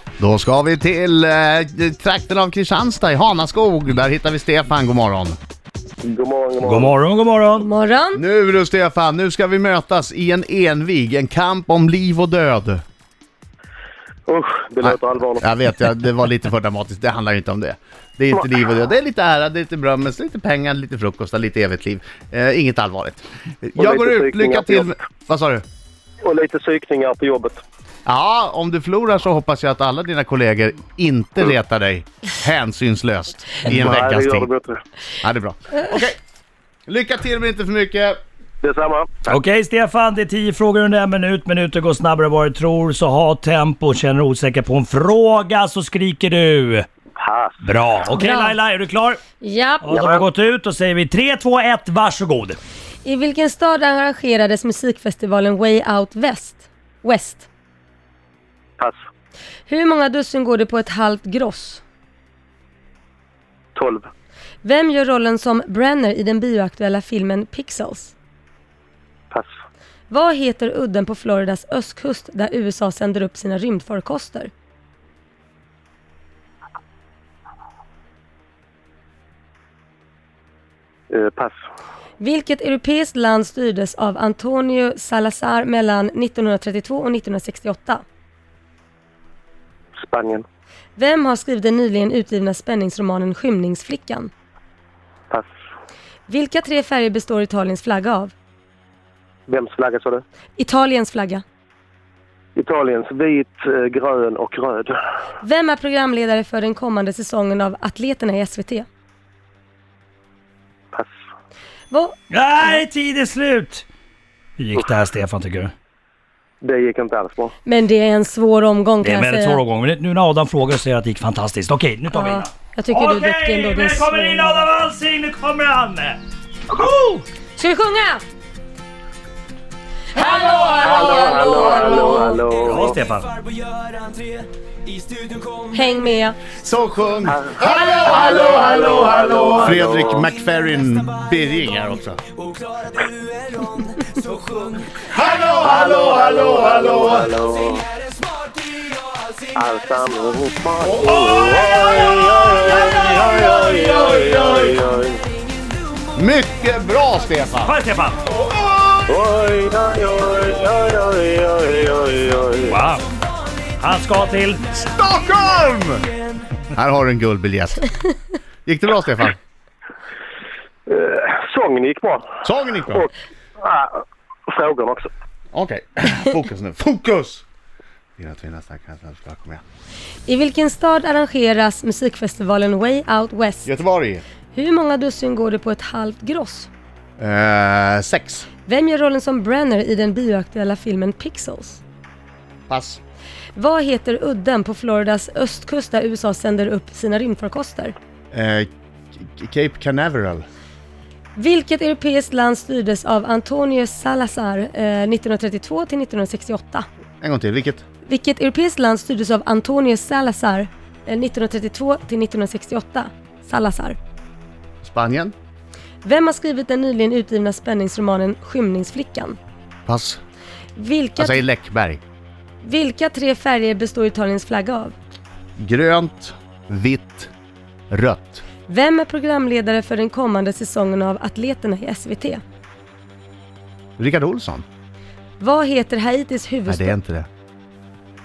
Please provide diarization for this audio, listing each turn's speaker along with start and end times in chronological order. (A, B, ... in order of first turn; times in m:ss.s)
0:00.2-0:05.4 A
0:06.0-0:07.0 B
0:06.6-0:07.7 C
0:07.6-0:08.2 D
0:08.2-0:12.8 A
0:14.3-0:15.4 B
0:14.8-0:25.6 A
0:23.8-0:24.9 B
0:26.2-0:27.6 B
0:28.1-0:34.5 A
0:33.7-0:34.8 B
0:35.2-0:36.2 A
0:36.9-0:38.2 A
0:38.6-0:39.4 B
0:39.3-0:46.9 C
0:47.2-0:47.6 B
0:47.6-0:49.2 C
0:48.1-0:48.6 D
0:49.4-0:50.1 D
0:49.8-0:52.6 C
0:53.0-0:57.5 D
0:59.7-1:01.8 D
1:03.8-1:04.1 B
1:04.6-1:08.1 D
1:10.1-1:14.5 D
1:21.1-1:21.6 B
1:22.2-1:28.0 D
1:30.0-1:30.4 B
1:31.0-1:34.3 D
1:36.3-1:38.3 D
1:39.5-1:40.2 B
1:40.6-1:41.4 D
1:42.6-1:45.0 B
1:45.4-1:48.9 D
1:51.9-1:52.2 D
1:52.3-1:53.8 C
1:54.6-1:55.7 C
1:56.6-1:57.5 B
1:57.6-1:59.6 D
1:59.0-2:06.2 C
2:02.1-2:04.7 D
2:06.8-2:07.2 C
2:07.6-2:08.2 D
2:10.2-2:12.4 D
2:10.8-2:13.0 B
2:12.6-2:13.4 C
2:15.7-2:16.4 D
2:16.6-2:22.2 A
2:17.3-2:20.3 B
2:18.4-2:18.7 D
2:25.0-2:27.3 A
2:25.6-2:27.9 B
2:29.5-2:35.2 B
2:30.8-2:31.3 A
2:32.3-2:34.7 A
2:36.2-2:37.8 A
2:37.6-2:38.2 C
2:38.3-2:39.0 A
2:39.1-2:42.8 B
2:42.6-2:43.1 C
2:43.8-2:44.6 C
2:44.7-2:46.1 A
2:46.7-2:47.9 A
2:48.7-2:49.4 A
2:50.9-2:52.3 B
2:52.4-2:53.1 A
2:53.6-2:55.1 B
2:55.5-2:57.4 A
2:58.2-2:59.6 A
3:00.3-3:03.7 D
3:03.6-3:04.2 A
3:04.5-3:06.7 D
3:07.2-3:08.5 A
3:08.6-3:11.8 D
3:12.7-3:13.0 A
3:13.6-3:18.0 D
3:18.3-3:20.4 A
3:21.4-3:26.8 D
3:27.2-3:27.8 A
3:28.0-3:34.0 D
3:34.8-3:35.3 A
3:36.0-3:39.4 D
3:39.9-3:40.2 A
3:40.8-3:41.4 D
3:41.2-3:42.0 A
3:42.6-3:45.0 D
3:45.6-3:47.3 A
3:47.9-3:48.4 A
3:48.7-3:52.4 D
3:54.0-3:54.6 A
3:55.4-3:57.0 D
3:56.7-3:57.3 A